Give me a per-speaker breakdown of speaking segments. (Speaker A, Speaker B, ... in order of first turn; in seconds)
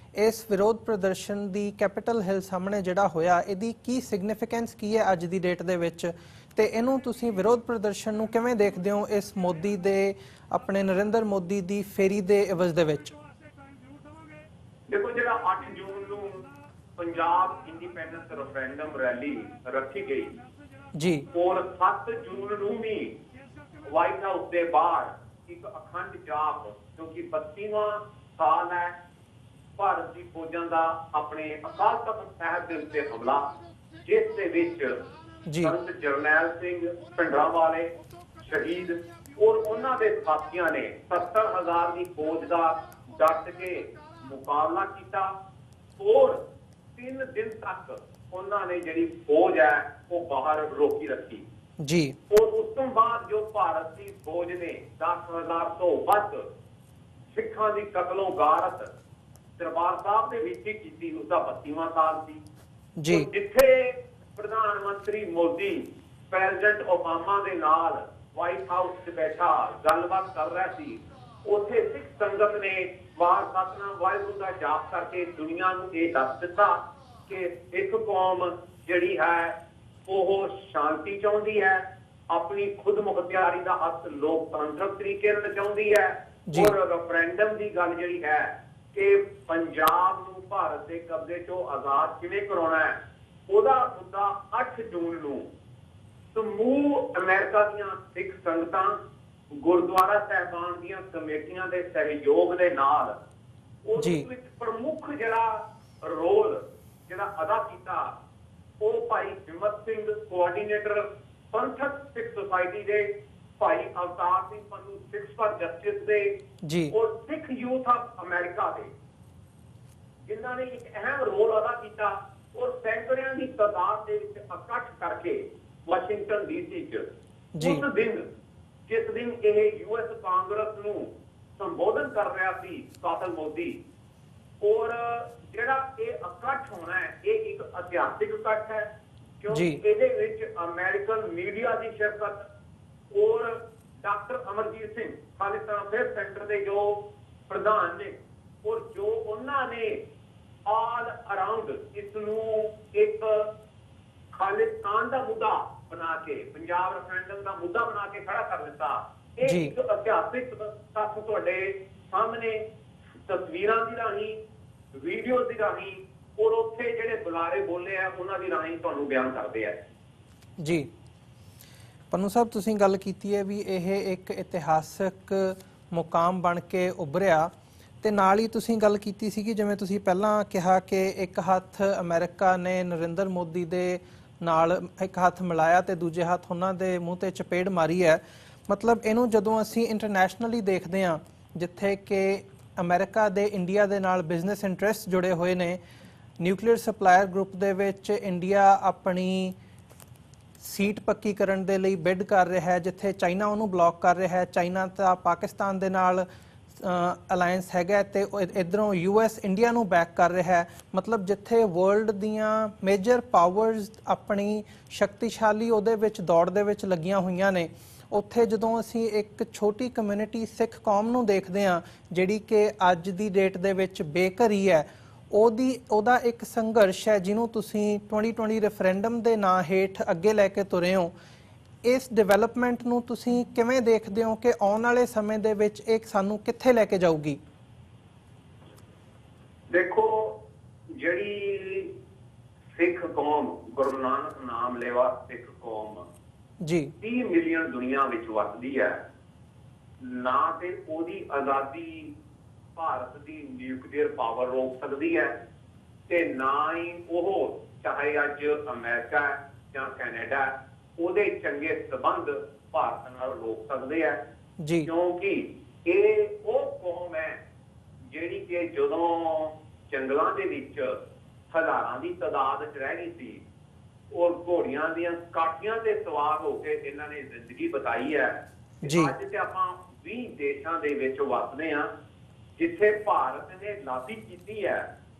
Speaker A: 0.2-13.1, 20.9-21.3, 35.5-35.7, 51.8-52.1, 63.0-63.3, 86.5-86.7, 104.0-104.2, 116.6-116.9, 127.5-127.8, 139.5-139.8, 159.4-159.7, 170.6-170.9, 172.1-177.5, 178.0-195.8, 196.4-199.5, 200.6-206.2, 206.8-231.1, 231.8-237.4, 246.6-246.9, 264.6-264.9, 278.8-279.1
Speaker B: 14.9-16.4, 17.0-20.3, 21.3-23.1, 23.8-28.9, 29.8-33.5, 34.0-35.0, 35.6-45.3, 46.0-46.4, 47.0-51.4, 52.3-56.5, 57.3-58.9, 59.6-62.4, 63.1-79.5, 80.1-93.0, 93.5-95.5, 96.3-99.0, 99.6-103.1, 103.8-108.1, 108.8-116.3, 116.9-118.9, 120.2-127.1, 127.6-128.2, 128.9-133.8, 134.6-138.9, 139.4-142.5, 143.1-150.0, 150.7-153.5, 154.3-162.6, 163.3-164.4, 165.0-169.8, 239.7-240.4, 241.0-241.9, 242.7-246.1, 247.0-249.0, 250.0-252.1, 252.8-255.3, 256.1-264.2, 264.8-267.4, 268.1-270.9, 271.5-273.4, 274.1-281.9, 282.6-284.8